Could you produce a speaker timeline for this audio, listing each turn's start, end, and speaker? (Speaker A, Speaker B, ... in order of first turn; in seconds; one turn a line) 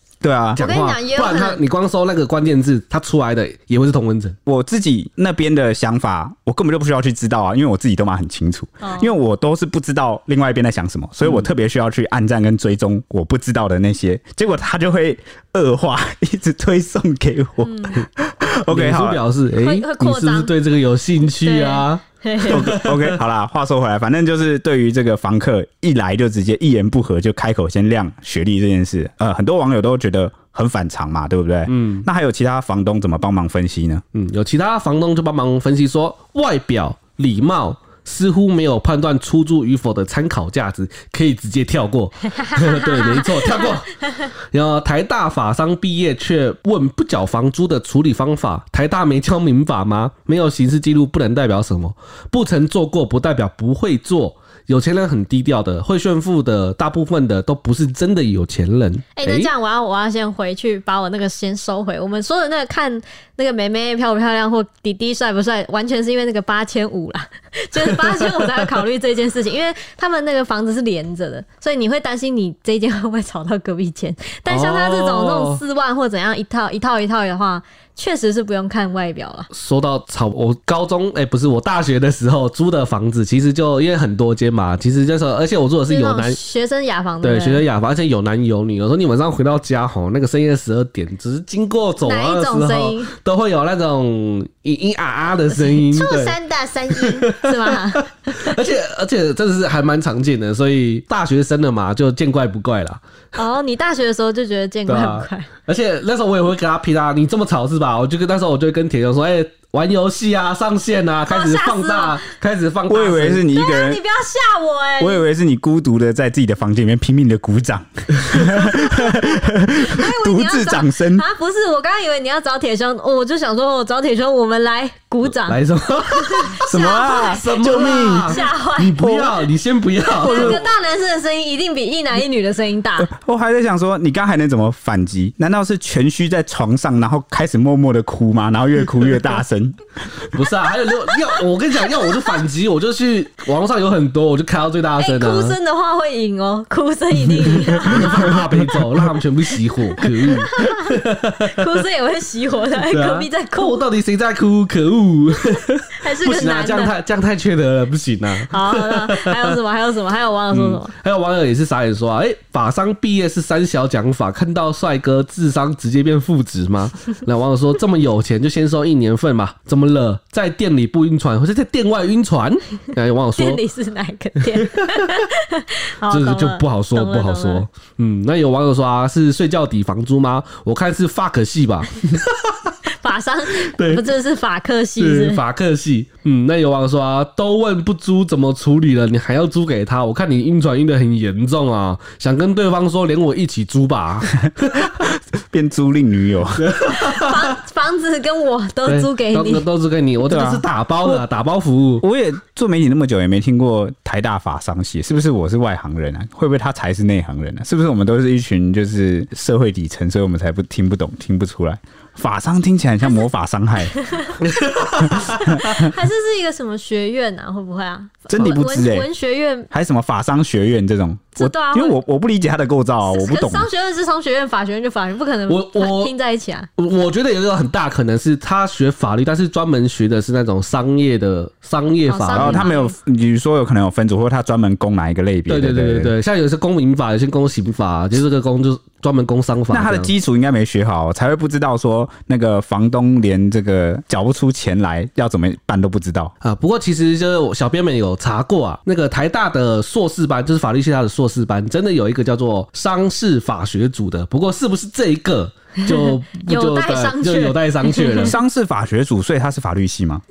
Speaker A: 0.2-0.7
Speaker B: 0.6-4.4
Speaker C: 0.6-1.6
Speaker A: 4.5-19.2
Speaker C: 8.8-9.1
Speaker C: 17.6-18.1
Speaker B: 18.7-23.2
Speaker C: 19.6-20.5
Speaker C: 21.4-22.7
Speaker A: 22.4-34.0
Speaker B: 31.7-32.1
Speaker B: 34.1-59.5
Speaker C: 42.4-44.3
Speaker C: 59.2-79.5
Speaker B: 67.9-68.3
Speaker B: 74.5-75.6
Speaker B: 79.5-86.4
Speaker C: 85.9-87.7
Speaker B: 87.2-96.4
Speaker C: 92.0-93.1
Speaker C: 95.7-98.6
Speaker B: 96.9-103.0
Speaker C: 103.3-105.5
Speaker B: 104.9-113.5
Speaker C: 111.3-112.2
Speaker A: 112.9-114.0
Speaker C: 113.5-115.3
Speaker A: 115.0-121.3
Speaker C: 118.5-125.6
Speaker B: 125.2-130.6
Speaker C: 126.1-129.1
Speaker A: 126.6-128.4
Speaker A: 129.0-129.3
Speaker C: 130.2-133.1
Speaker A: 130.2-130.6
Speaker A: 133.0-139.8
Speaker B: 140.3-145.6
Speaker C: 145.0-148.4
Speaker B: 147.3-151.8
Speaker C: 150.2-153.8
Speaker B: 152.9-159.6
Speaker C: 156.0-156.9
Speaker C: 158.5-160.9
Speaker B: 160.5-173.6
Speaker C: 173.4-177.7
Speaker B: 174.4-175.2
Speaker B: 176.1-182.7
Speaker C: 183.0-185.4
Speaker B: 183.6-184.1
Speaker B: 185.0-194.9
Speaker A: 194.5-196.7
Speaker B: 196.6-197.6
Speaker C: 196.9-199.7
Speaker B: 198.9-202.0
Speaker A: 200.3-201.2
Speaker A: 202.0-214.0
Speaker C: 213.9-214.4
Speaker B: 214.4-215.6
Speaker A: 215.1-215.9
Speaker C: 215.4-219.7
Speaker A: 218.3-219.1
Speaker A: 219.7-223.7
Speaker C: 221.4-222.0
Speaker C: 223.1-226.7
Speaker B: 225.5-226.1
Speaker B: 226.8-232.7
Speaker C: 232.1-232.9
Speaker A: 232.3-236.1
Speaker B: 235.5-240.1
Speaker A: 239.7-246.3
Speaker B: 246.4-258.4
Speaker C: 255.8-258.3
Speaker A: 258.2-260.2